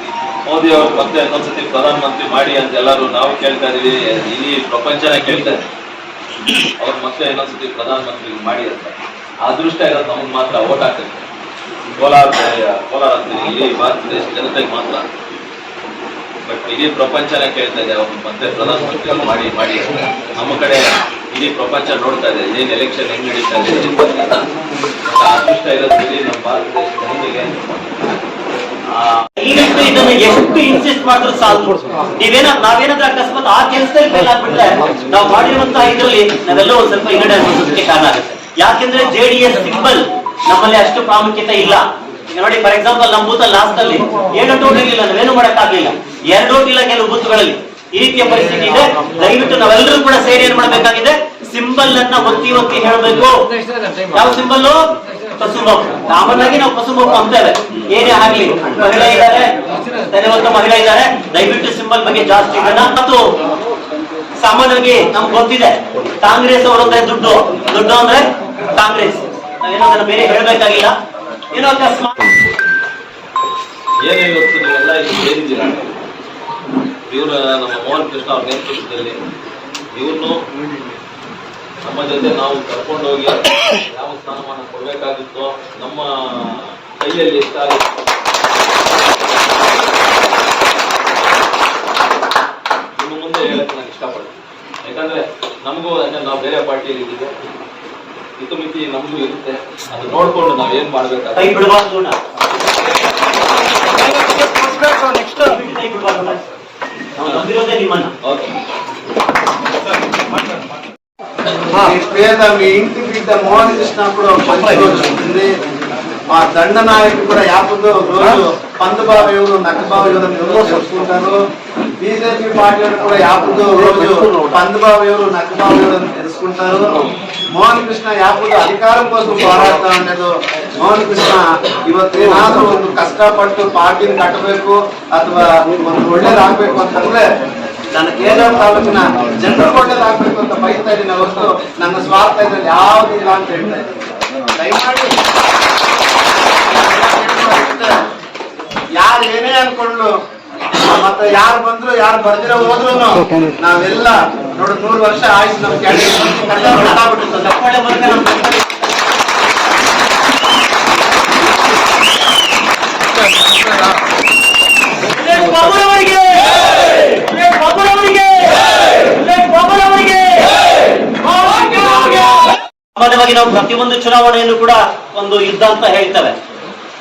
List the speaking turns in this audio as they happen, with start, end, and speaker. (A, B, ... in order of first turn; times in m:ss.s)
0:00.4-0:05.6 A
0:06.8-0:11.2 A
0:11.9-0:15.0 A
0:16.4-0:24.5 A
0:25.0-0:27.6 A
0:28.9-0:29.2 A
0:29.4-0:53.3 B
0:54.1-0:54.8 B
0:55.4-0:59.5 B
1:00.1-1:03.2 B
1:04.4-1:08.2 B
1:08.8-1:10.9 B
1:11.5-1:12.1 B
1:14.0-1:15.9 A
1:17.1-1:19.2 A
1:19.9-1:20.4 A
1:21.8-1:27.8 A
1:33.0-1:37.3 A
1:38.4-1:41.5 A
1:41.3-1:42.2 B
1:45.1-1:46.4 B
1:47.2-1:48.1 B
1:48.2-1:48.6 A
1:51.7-1:55.5 C
1:56.3-2:01.4 C
2:02.0-2:06.8 C
2:07.5-2:17.2 C
2:17.9-2:23.9 C
2:24.6-2:25.1 C
2:26.7-2:27.9 C
2:29.0-2:30.1 C
2:30.8-2:37.4 C
2:36.4-2:38.6 B
2:45.1-2:56.3 B